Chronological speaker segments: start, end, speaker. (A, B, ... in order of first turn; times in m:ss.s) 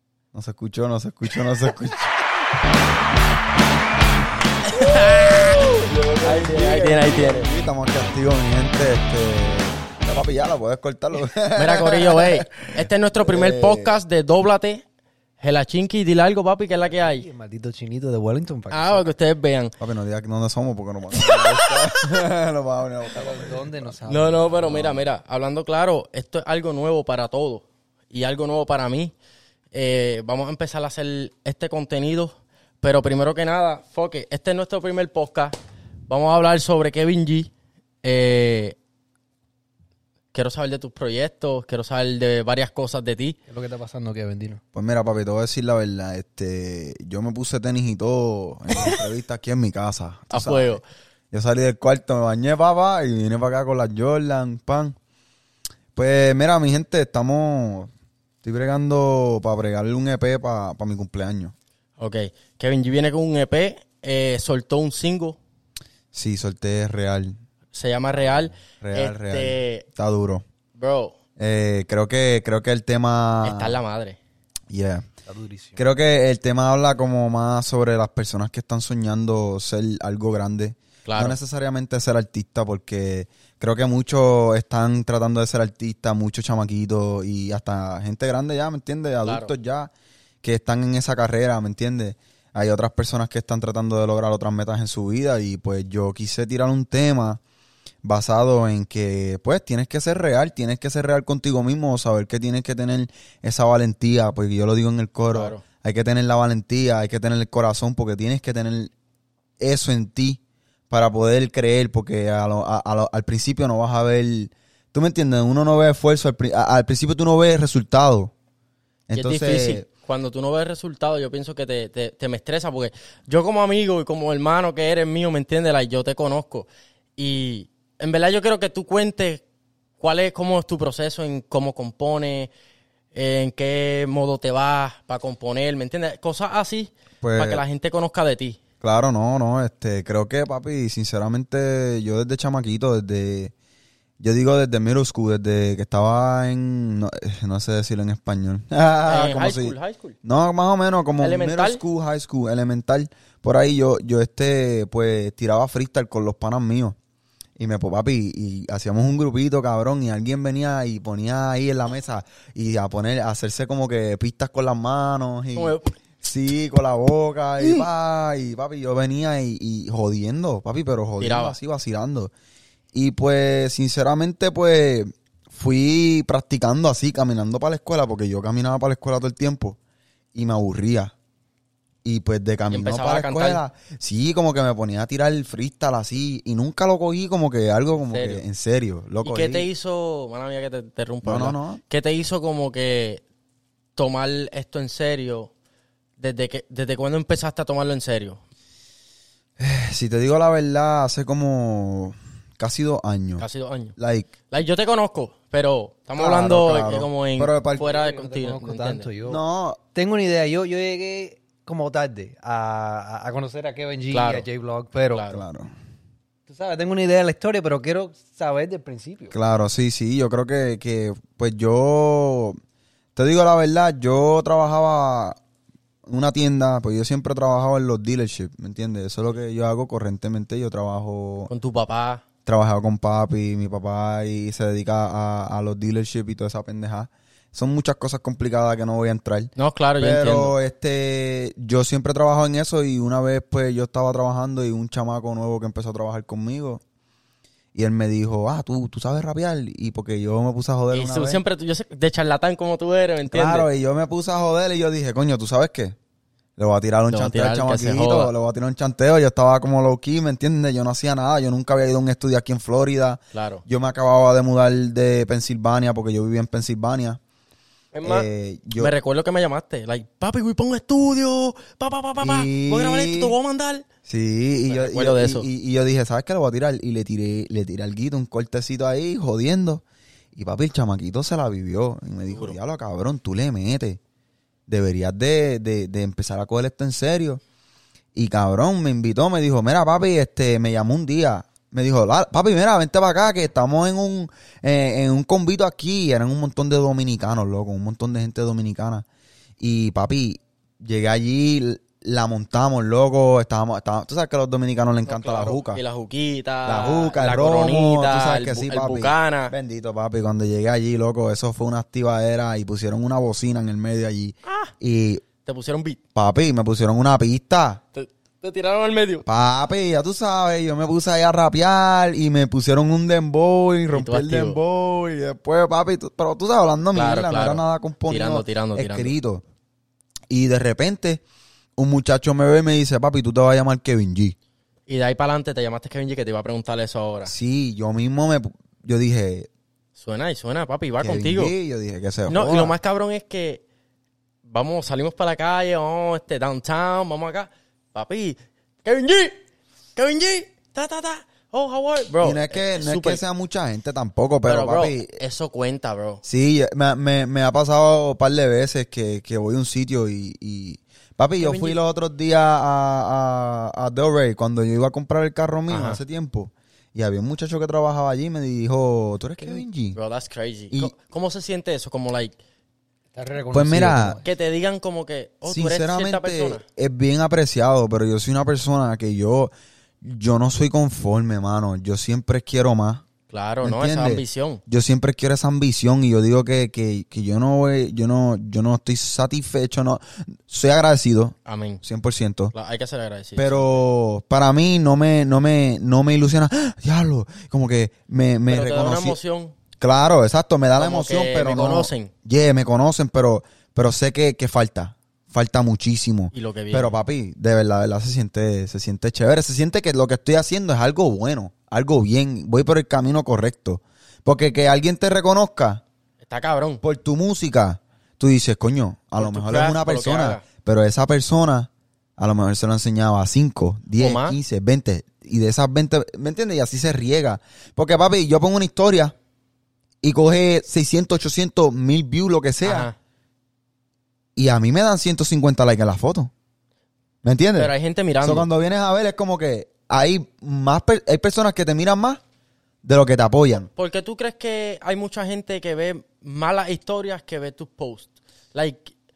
0:00.3-0:02.1 A
0:04.6-0:07.5 B
0:05.5-0:13.9 A
0:11.5-0:14.8 B
0:15.4-0:17.3 B
0:16.9-0:19.0 C
0:18.7-0:19.7 B
0:19.8-0:23.9 A
0:21.1-0:21.8 B
0:23.1-0:24.8 C
0:24.0-0:29.1 B
0:24.6-0:25.0 A
0:29.7-0:35.5 B
0:36.1-0:37.5 B
0:38.0-0:38.8 B
0:40.3-0:43.4 B
0:43.5-0:44.6 C
0:44.7-0:55.0 A
0:50.3-0:50.8 B
0:55.9-0:57.9 A
0:58.4-1:01.5 A
1:02.0-1:05.4 B
1:06.1-1:07.4 A
1:07.7-1:09.8 B
1:08.6-1:10.4 A
1:10.7-1:11.2 B
1:11.4-1:13.8 A
1:13.4-1:14.2 B
1:14.7-1:15.1 A
1:15.2-1:15.8 C
1:15.8-1:29.9 A
1:21.0-1:21.4 B
1:29.2-1:29.5 B
1:30.4-1:37.4 A
1:38.0-1:48.9 A
1:45.3-1:45.6 B
1:49.6-1:58.3 A
1:59.1-1:59.8 A
1:59.1-2:09.4 B
2:10.0-2:12.5 B
2:13.1-2:18.6 B
2:17.2-2:17.6 A
2:18.8-2:23.5 A
2:24.2-2:37.0 A
2:29.1-2:30.2 B
2:31.2-2:31.8 B
2:37.6-2:52.3 A
2:45.5-2:45.9 B
2:51.2-2:51.6 B
2:52.9-2:59.8 A
3:00.3-3:01.1 A
3:02.0-3:09.7 A
3:02.7-3:03.6 B
3:08.0-3:08.4 B
3:09.2-3:13.2 B
3:11.2-3:11.8 A
3:14.0-3:15.5 B
3:16.2-3:18.4 B
3:19.6-3:23.4 A
3:23.4-3:24.0 B
3:24.0-3:24.3 A
3:24.5-3:29.1 B
3:26.2-3:27.9 A
3:27.8-3:29.4 C
3:29.2-3:29.8 A
3:29.9-3:35.2 C
3:34.1-3:34.4 B
3:35.1-3:35.4 B
3:35.3-3:35.7 A
3:36.5-3:39.4 C
3:39.3-3:42.6 A
3:43.2-3:45.4 A
3:46.0-3:51.5 A
3:51.5-3:52.2 B
3:52.4-4:06.8 A
3:59.6-4:00.5 B
4:07.7-4:11.4 A
4:10.9-4:13.7 B
4:13.3-4:16.0 A
4:16.6-4:27.2 A
4:17.1-4:18.3 B
4:23.3-4:23.6 B
4:27.9-4:33.8 B
4:28.0-4:28.9 A
4:32.2-4:33.4 A
4:34.0-4:39.8 A
4:34.7-4:35.5 B
4:40.3-4:44.0 A
4:42.3-4:42.6 B
4:44.7-4:47.4 A
4:48.1-4:59.0 A
4:59.6-5:05.8 A
5:05.0-5:09.5 B
5:06.6-5:15.2 A
5:14.4-5:14.7 B
5:15.4-5:16.0 B
5:16.1-5:17.8 A
5:17.9-5:19.2 B
5:19.2-5:29.4 A
5:23.9-5:24.6 B
5:26.9-5:29.2 B
5:30.3-5:31.2 A
5:31.8-5:34.3 A
5:34.9-5:37.3 B
5:37.2-5:39.5 A
5:40.0-5:41.5 B
5:41.0-5:42.8 A
5:42.3-5:43.6 B
5:44.4-5:49.4 B
5:49.9-5:53.2 B
5:52.2-5:55.2 A
5:54.4-5:56.2 B
5:56.2-6:10.0 A
6:01.4-6:01.8 B
6:05.7-6:06.0 B
6:09.4-6:12.4 B
6:13.1-6:14.3 C
6:13.5-6:14.2 A
6:14.2-6:16.6 B
6:15.4-6:23.0 A
6:23.3-6:24.6 B
6:23.6-6:32.5 A
6:31.4-6:31.8 B
6:32.5-6:33.8 B
6:33.4-6:39.2 A
6:38.5-6:39.5 B
6:39.8-6:55.8 A
6:40.8-6:42.1 B
6:46.3-6:47.0 B
6:56.2-6:56.8 B
6:56.8-7:09.1 A
6:59.2-7:00.4 B
7:04.0-7:04.4 B
7:10.0-7:12.9 A
7:12.6-7:13.0 B
7:14.4-7:16.3 A
7:17.2-7:22.2 A
7:17.6-7:18.5 B
7:22.8-7:23.7 A
7:23.7-7:28.9 B